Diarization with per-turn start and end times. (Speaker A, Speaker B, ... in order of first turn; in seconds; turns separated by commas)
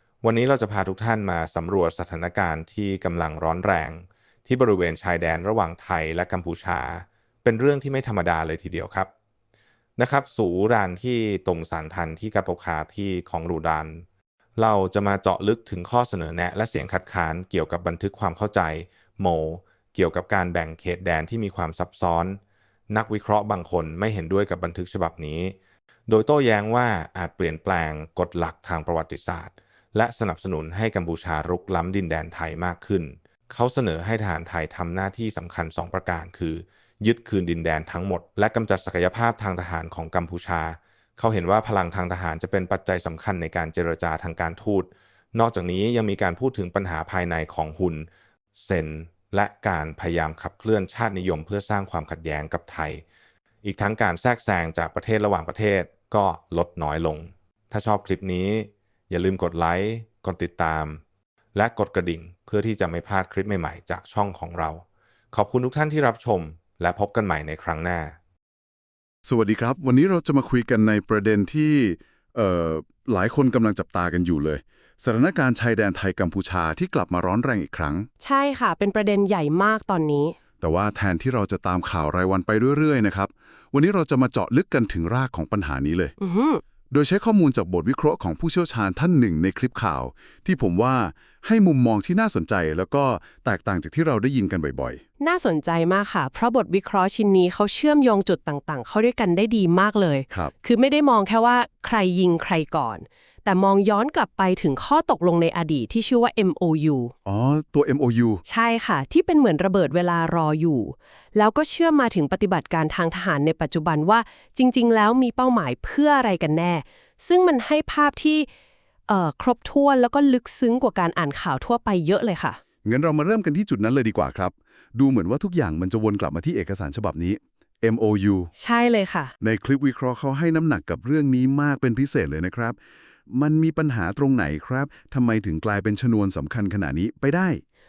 Speaker A: 0.2-9.1, Speaker A: 10.0-14.0, Speaker A: 14.6-22.4, Speaker A: 22.9-25.5, Speaker A: 26.1-53.0, Speaker A: 53.6-61.0, Speaker A: 61.5-68.2, Speaker B: 69.2-78.1, Speaker C: 78.2-80.3, Speaker B: 80.6-86.1, Speaker C: 86.2-86.6, Speaker B: 86.9-95.0, Speaker C: 95.2-107.1, Speaker B: 107.2-108.4, Speaker C: 108.5-118.5, Speaker C: 119.1-122.6, Speaker B: 122.8-128.5, Speaker C: 128.6-129.3, Speaker B: 129.4-132.8, Speaker B: 133.3-137.6